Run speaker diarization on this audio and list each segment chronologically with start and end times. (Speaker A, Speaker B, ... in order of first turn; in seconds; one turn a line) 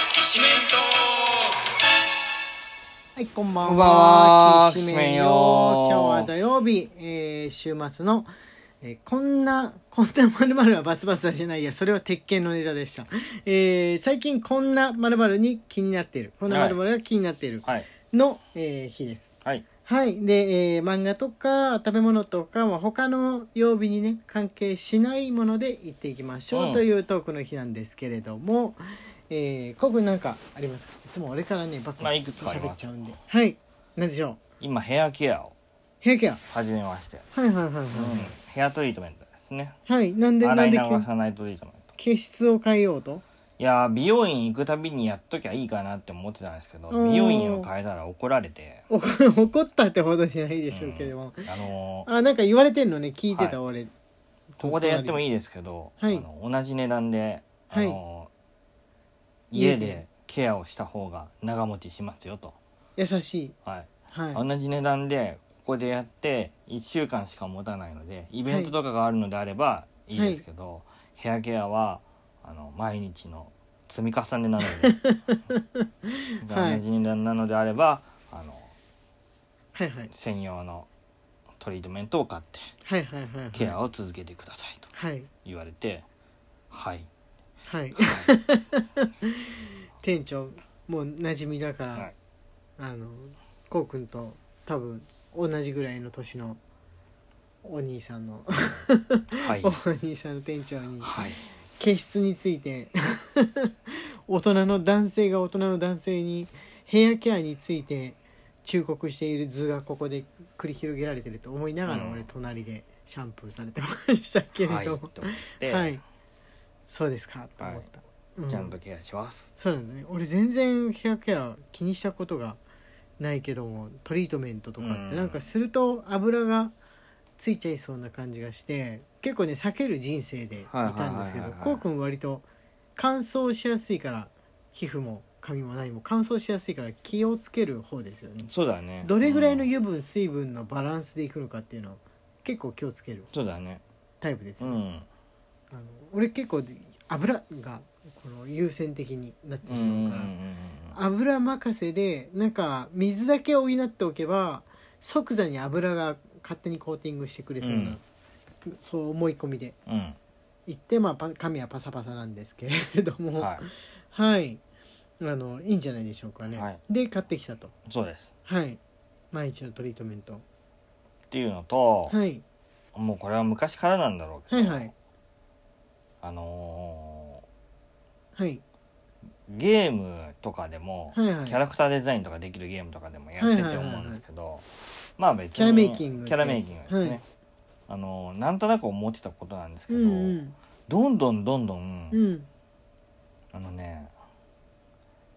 Speaker A: 3.2-8.3
Speaker B: 3.6-6.3
Speaker A: 8.8-19.3
Speaker B: 16.5-16.8
Speaker A: 19.9-34.4
Speaker B: 26.5-26.8
Speaker B: 32.0-32.9
Speaker B: 34.6-35.5
Speaker A: 36.0-36.4
Speaker B: 36.5-37.3
Speaker A: 37.3-38.3
Speaker B: 37.9-39.8
Speaker A: 39.9-41.1
Speaker B: 40.4-41.9
Speaker A: 42.0-43.2
Speaker B: 43.6-48.9
Speaker A: 46.9-47.7
Speaker A: 48.9-51.5
Speaker B: 50.7-52.1
Speaker A: 52.1-53.9
Speaker A: 54.6-55.2
Speaker B: 54.6-58.3
Speaker A: 57.7-58.0
Speaker B: 59.5-62.6
Speaker A: 59.5-60.0
Speaker A: 63.0-63.5
Speaker B: 63.6-75.0
Speaker A: 64.1-64.4
Speaker A: 68.5-68.7
Speaker A: 70.2-70.4
Speaker A: 74.8-75.9
Speaker B: 76.4-78.7
Speaker A: 76.5-76.8
Speaker A: 79.7-80.1
Speaker B: 80.1-80.9
Speaker B: 81.6-82.7
Speaker A: 82.8-83.8
Speaker B: 83.5-84.9
Speaker A: 84.9-85.3
Speaker B: 85.5-86.0
Speaker B: 86.7-87.1
Speaker A: 87.7-89.4
Speaker B: 88.0-88.3
Speaker A: 90.0-92.1
Speaker A: 92.8-96.6
Speaker A: 97.6-101.2
Speaker B: 99.4-99.8
Speaker B: 101.0-101.4
Speaker A: 101.8-103.7
Speaker A: 104.3-116.0
Speaker B: 111.9-112.3
Speaker B: 114.6-116.0
Speaker A: 116.9-118.8
Speaker B: 117.6-117.9
Speaker B: 118.5-119.5
Speaker A: 119.6-122.6
Speaker A: 123.2-126.7
Speaker B: 124.8-125.4
Speaker A: 127.4-138.5
Speaker B: 130.7-131.8
Speaker B: 138.4-139.7
Speaker A: 139.0-143.3
Speaker B: 143.3-143.8
Speaker A: 144.2-144.8
Speaker B: 144.6-145.1
Speaker A: 145.7-150.3
Speaker B: 149.7-151.0
Speaker A: 150.9-158.0
Speaker B: 157.6-158.0
Speaker A: 158.7-159.8
Speaker B: 159.9-160.2
Speaker A: 160.7-164.6
Speaker B: 163.4-163.6
Speaker A: 165.2-167.7
Speaker B: 166.6-166.8
Speaker B: 167.9-168.3
Speaker A: 168.5-168.8
Speaker A: 169.3-170.4
Speaker B: 171.3-172.2
Speaker A: 172.1-172.4
Speaker B: 172.9-174.9
Speaker A: 174.5-174.9
Speaker B: 176.2-177.4
Speaker A: 178.4-178.6
Speaker B: 179.5-184.7
Speaker A: 181.1-181.6
Speaker A: 183.4-184.2
Speaker B: 185.2-187.2
Speaker A: 185.6-187.2
Speaker B: 187.9-192.2
Speaker A: 189.9-190.6
Speaker A: 192.1-192.5
Speaker B: 193.5-194.1